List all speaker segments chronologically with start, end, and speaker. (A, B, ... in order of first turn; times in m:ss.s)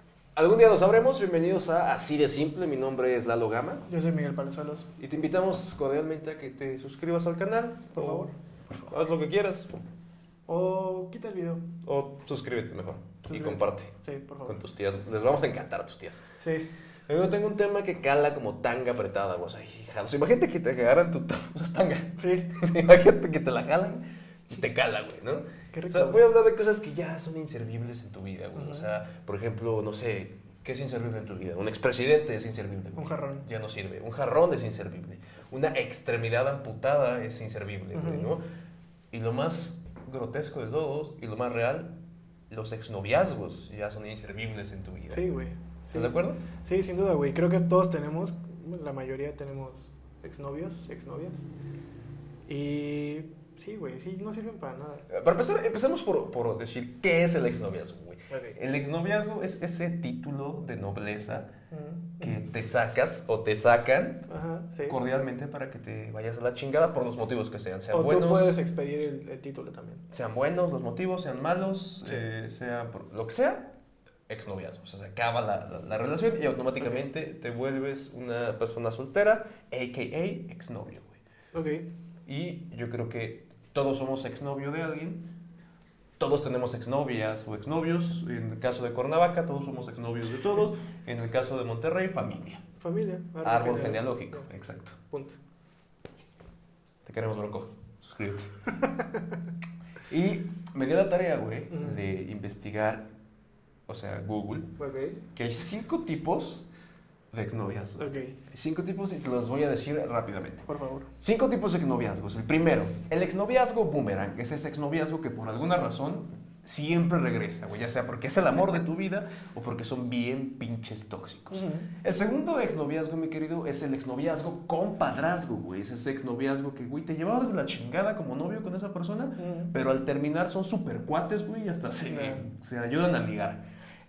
0:00.4-0:03.8 A
0:03.9-0:04.9 B
0:05.0-0:08.3 A
0:08.0-0:08.9 B
0:08.9-0:09.7 A
0:10.5-0:11.6 B
0:11.8-0:13.9 A
0:13.2-0:14.6 B
0:14.4-0:16.2 A
0:16.4-0:16.7 B
0:17.1-0:38.4 A
0:22.2-0:22.5 B
0:25.7-0:26.2 B
0:28.5-0:28.9 B
0:32.9-0:33.4 B
0:37.9-0:38.3 B
0:39.1-0:42.0 A
0:42.5-0:45.2 A
0:45.1-0:51.5 B
0:45.9-0:46.4 A
0:52.4-0:55.1 B
0:55.1-1:01.5 A
0:58.3-0:58.6 B
1:01.7-1:02.4 B
1:02.2-1:04.3 A
1:04.3-1:05.0 B
1:04.8-1:08.6 A
1:07.9-1:10.0 B
1:10.1-1:13.7 A
1:14.3-1:21.2 A
1:21.5-1:21.9 B
1:22.2-1:25.2 A
1:26.2-1:32.6 A
1:32.8-1:34.5 B
1:33.4-1:35.0 A
1:35.1-1:35.4 B
1:37.0-1:38.5 A
1:40.1-1:43.1 A
1:41.7-1:42.0 B
1:43.9-1:44.8 A
1:44.8-1:45.2 B
1:45.3-1:46.7 A
1:47.3-1:50.7 A
1:48.0-1:48.4 B
1:50.7-1:51.1 B
1:51.2-2:13.6 A
2:01.5-2:01.9 B
2:09.4-2:09.7 B
2:12.1-2:12.4 B